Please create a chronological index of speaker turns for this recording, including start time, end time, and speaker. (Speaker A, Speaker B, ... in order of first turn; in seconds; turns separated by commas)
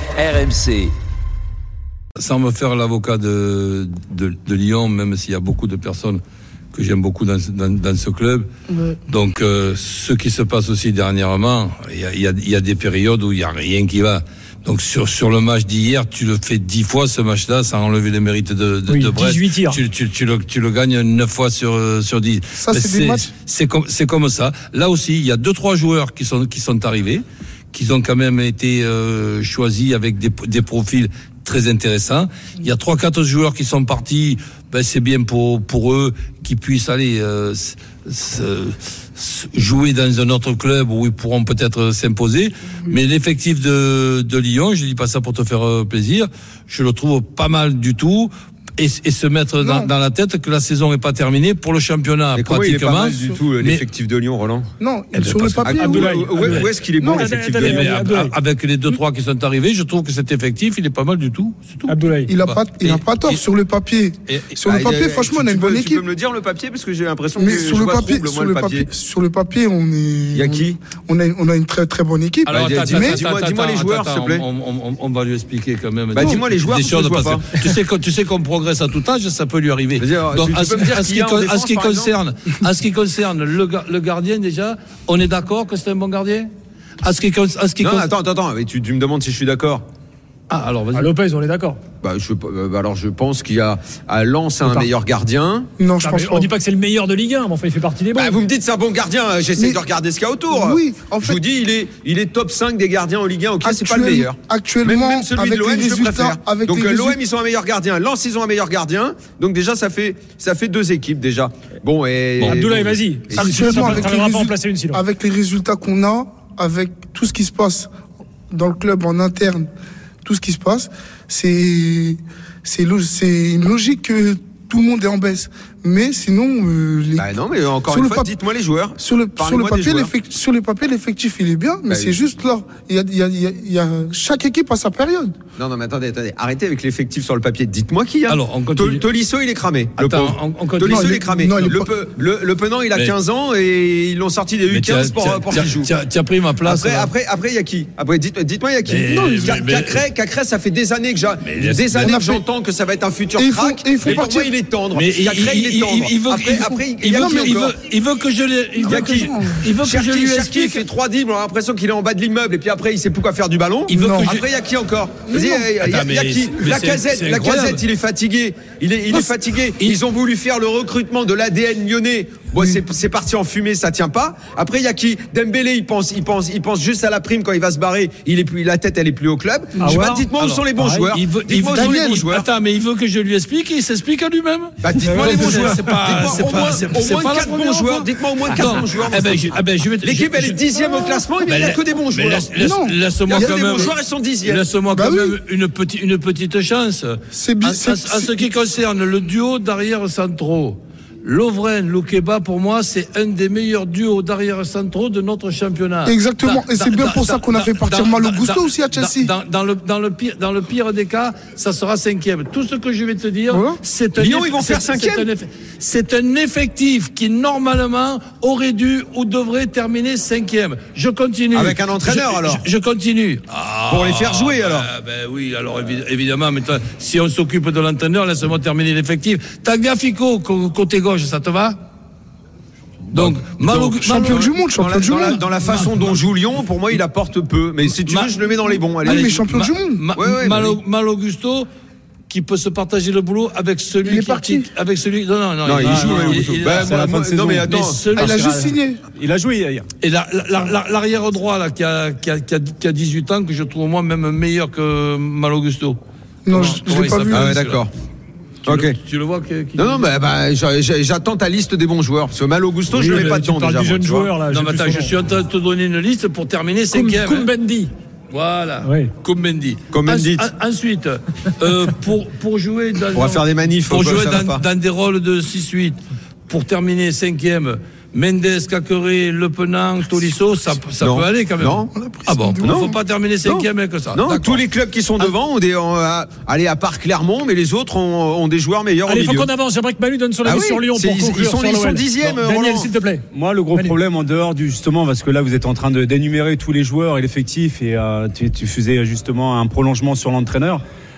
Speaker A: 0.2-0.8, Speaker A: 2.2-6.2, Speaker A: 6.7-8.5, Speaker A: 9.1-53.8, Speaker B: 18.9-19.8, Speaker C: 22.6-23.3, Speaker C: 49.6-49.9, Speaker D: 52.4-54.7, Speaker C: 54.8-56.0, Speaker A: 55.1-56.7, Speaker D: 55.6-58.1, Speaker B: 55.9-58.3, Speaker A: 57.6-63.4, Speaker B: 61.9-62.4, Speaker C: 62.3-66.0, Speaker A: 64.3-64.6, Speaker D: 64.7-68.9, Speaker C: 67.4-73.2, Speaker D: 70.3-70.8, Speaker D: 72.5-74.5, Speaker A: 72.5-86.5, Speaker D: 76.1-77.7, Speaker D: 80.0-82.2, Speaker A: 87.0-88.1, Speaker D: 87.8-89.8, Speaker A: 90.5-91.1, Speaker B: 90.9-91.8, Speaker D: 92.0-95.7, Speaker B: 94.6-94.9, Speaker C: 95.8-96.5, Speaker B: 96.0-98.4, Speaker D: 98.2-114.1, Speaker C: 100.5-101.4, Speaker C: 103.6-107.2, Speaker B: 112.4-115.0, Speaker C: 113.3-117.9, Speaker C: 118.5-119.7, Speaker C: 120.2-127.3, Speaker D: 127.2-130.1, Speaker C: 127.9-128.3, Speaker C: 129.0-135.3, Speaker D: 131.9-132.2, Speaker D: 135.6-145.9, Speaker A: 138.3-139.0, Speaker A: 140.0-141.2, Speaker C: 140.8-141.9, Speaker A: 144.7-147.1, Speaker D: 146.6-157.8, Speaker A: 148.8-150.0, Speaker C: 149.1-149.5, Speaker A: 151.4-152.2, Speaker C: 152.0-152.4, Speaker C: 153.4-154.6, Speaker A: 154.9-160.8, Speaker C: 157.1-157.6, Speaker C: 158.8-159.7, Speaker D: 158.8-182.5, Speaker A: 163.9-164.4, Speaker C: 163.9-164.3, Speaker C: 165.3-165.7, Speaker A: 165.8-167.8, Speaker C: 179.8-180.2, Speaker A: 179.8-231.8, Speaker B: 179.8-181.2, Speaker B: 181.8-182.2, Speaker D: 184.8-192.6, Speaker C: 185.0-185.9, Speaker C: 192.6-193.9, Speaker D: 193.3-194.7, Speaker C: 194.9-195.4, Speaker C: 197.3-198.5, Speaker C: 206.1-209.3, Speaker C: 213.5-213.8, Speaker D: 214.2-215.3, Speaker D: 221.5-222.7, Speaker D: 223.9-224.9, Speaker D: 233.1-233.6, Speaker A: 233.1-234.5, Speaker C: 233.6-235.4, Speaker D: 234.2-239.4, Speaker A: 235.7-236.2, Speaker A: 238.0-238.4, Speaker C: 239.0-240.1, Speaker A: 239.0-241.7, Speaker D: 240.1-240.8, Speaker A: 242.3-247.0, Speaker C: 244.0-244.7, Speaker D: 245.7-248.2, Speaker E: 245.8-247.9, Speaker A: 247.6-248.8, Speaker C: 248.1-249.1, Speaker E: 249.1-249.9, Speaker A: 250.0-257.8, Speaker C: 256.4-257.6, Speaker D: 257.3-257.9, Speaker A: 258.6-260.1, Speaker D: 258.7-258.9, Speaker D: 259.8-264.3, Speaker B: 262.9-265.1, Speaker A: 264.5-267.5, Speaker B: 266.9-267.9, Speaker A: 268.3-284.6, Speaker B: 268.8-269.1, Speaker D: 269.9-270.4, Speaker D: 273.1-274.6, Speaker D: 281.0-281.9, Speaker C: 281.9-283.0, Speaker D: 282.6-289.5, Speaker B: 289.1-294.0, Speaker D: 290.4-292.9, Speaker E: 293.3-300.8